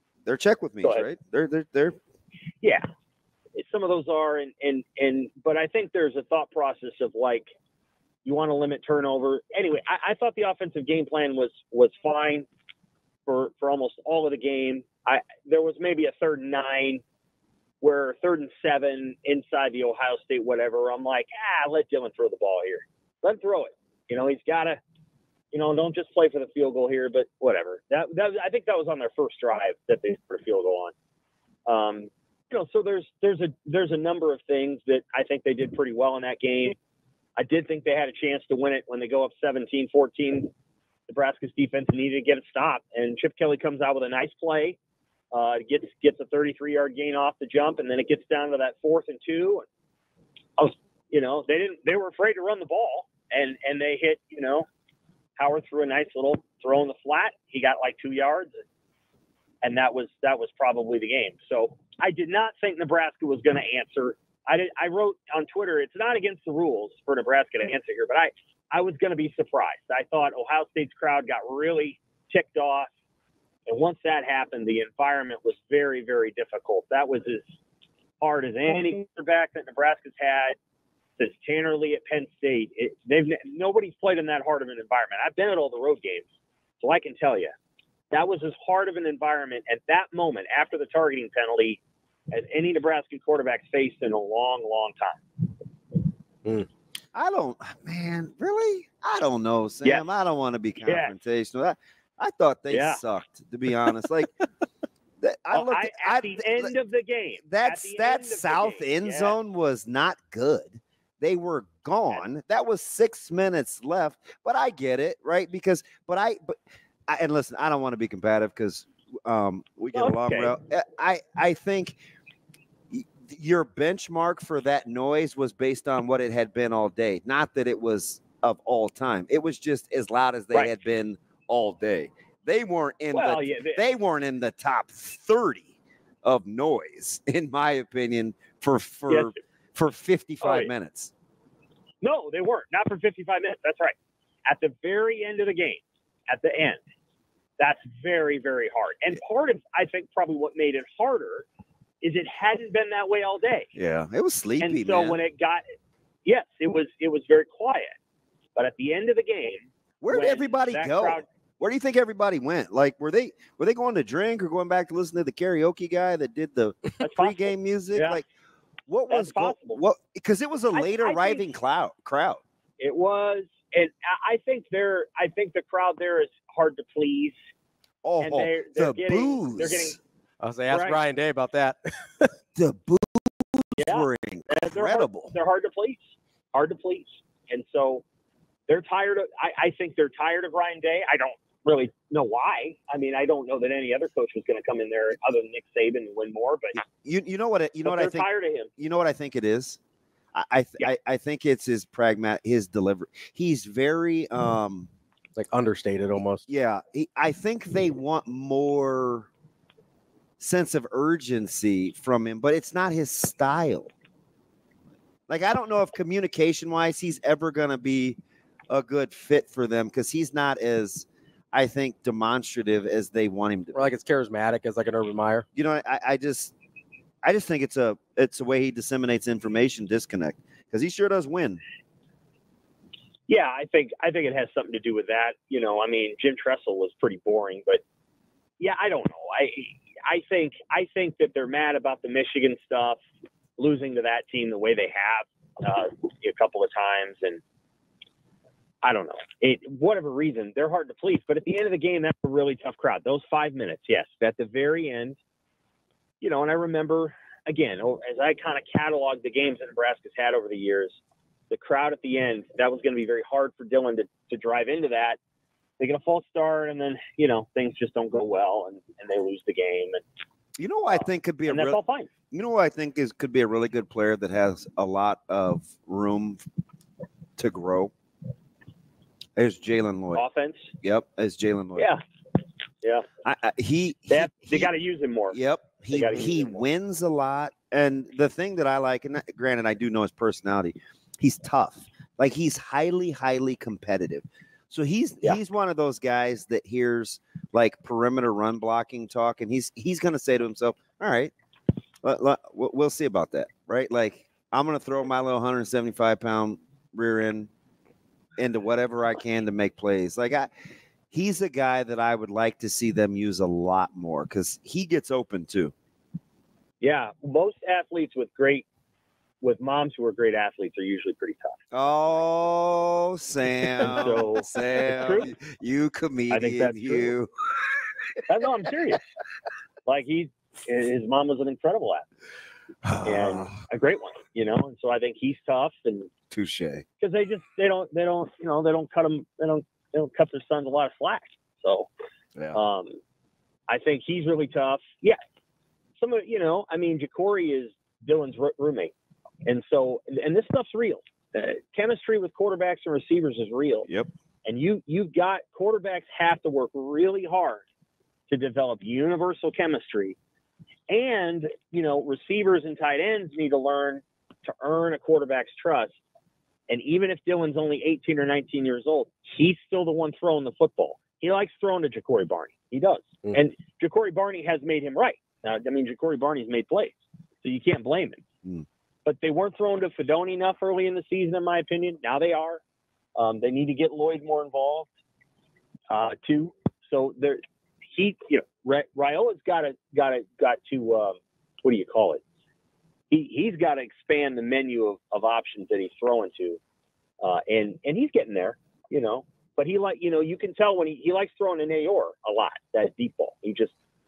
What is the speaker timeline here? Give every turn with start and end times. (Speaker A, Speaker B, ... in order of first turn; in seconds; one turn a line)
Speaker A: 0.2-2.0
Speaker B: 3.5-7.5
Speaker B: 8.2-12.5
Speaker B: 13.3-17.0
Speaker B: 17.8-24.8
Speaker B: 25.5-30.9
Speaker B: 31.6-36.8
Speaker B: 37.4-40.5
Speaker B: 41.1-44.8
Speaker B: 45.3-49.6
Speaker B: 50.6-54.6
Speaker B: 55.4-58.5
Speaker B: 59.6-72.9
Speaker B: 73.7-77.4
Speaker B: 78.2-80.5
Speaker B: 81.2-86.2
Speaker B: 86.8-87.5
Speaker B: 88.1-91.8
Speaker B: 92.3-95.2
Speaker A: 97.1-104.3
Speaker B: 100.8-101.1
Speaker B: 102.7-103.0
Speaker A: 105.2-106.7
Speaker B: 105.5-109.4
Speaker A: 107.5-122.0
Speaker B: 119.9-120.5
Speaker A: 122.9-135.7
Speaker B: 133.1-133.8
Speaker A: 136.2-141.1
Speaker B: 139.1-139.4
Speaker B: 140.4-140.7
Speaker B: 142.0-143.9
Speaker B: 144.4-146.8
Speaker B: 147.6-151.4
Speaker B: 152.0-153.7
Speaker A: 153.7-155.2
Speaker B: 154.6-155.6
Speaker B: 156.2-157.9
Speaker B: 158.6-161.2
Speaker A: 160.0-168.2
Speaker B: 167.0-168.2
Speaker A: 168.9-172.4
Speaker B: 169.1-169.8
Speaker B: 170.7-171.4
Speaker B: 172.8-177.3
Speaker A: 178.0-179.9
Speaker B: 178.2-180.0
Speaker C: 180.4-182.3
Speaker B: 180.7-181.0
Speaker A: 182.5-185.3
Speaker B: 183.8-186.0
Speaker B: 186.5-188.0
Speaker B: 188.7-196.8
Speaker A: 196.9-198.3
Speaker B: 197.8-198.7
Speaker A: 198.8-199.8
Speaker A: 200.3-204.9
Speaker C: 205.3-206.4
Speaker A: 206.5-209.3
Speaker A: 210.4-213.9
Speaker A: 215.3-218.2
Speaker A: 218.7-223.9
Speaker C: 223.7-225.4
Speaker A: 225.6-226.5
Speaker A: 227.2-231.6
Speaker B: 233.3-237.8
Speaker B: 238.6-243.0
Speaker B: 243.6-247.4
Speaker B: 248.8-255.2
Speaker B: 256.2-261.0
Speaker B: 261.5-265.2
Speaker B: 265.8-270.0
Speaker A: 270.6-271.8
Speaker B: 270.9-272.1
Speaker A: 272.3-276.4
Speaker A: 277.4-277.9
Speaker A: 279.4-280.2
Speaker B: 280.1-280.7
Speaker A: 280.8-281.9
Speaker B: 282.8-283.1
Speaker A: 283.2-284.7
Speaker B: 284.1-285.4
Speaker A: 285.3-301.3
Speaker B: 285.9-286.6
Speaker A: 302.0-307.5
Speaker A: 308.4-310.5
Speaker A: 311.1-315.7
Speaker B: 316.8-318.6
Speaker B: 319.4-321.6
Speaker A: 321.7-327.3
Speaker B: 323.8-325.3
Speaker B: 326.3-327.1
Speaker B: 328.3-329.0
Speaker B: 329.9-332.0
Speaker A: 332.8-333.5
Speaker B: 333.0-336.1
Speaker A: 336.3-336.8
Speaker B: 337.0-341.9
Speaker B: 342.5-343.0
Speaker B: 343.7-345.2
Speaker B: 346.0-348.9
Speaker B: 349.4-353.9
Speaker B: 354.4-357.6
Speaker B: 358.3-360.1
Speaker B: 360.9-365.9
Speaker B: 366.7-378.2
Speaker B: 379.1-382.6
Speaker B: 383.1-384.9
Speaker B: 385.9-387.4
Speaker B: 387.9-392.2
Speaker B: 393.1-396.6
Speaker B: 397.2-403.7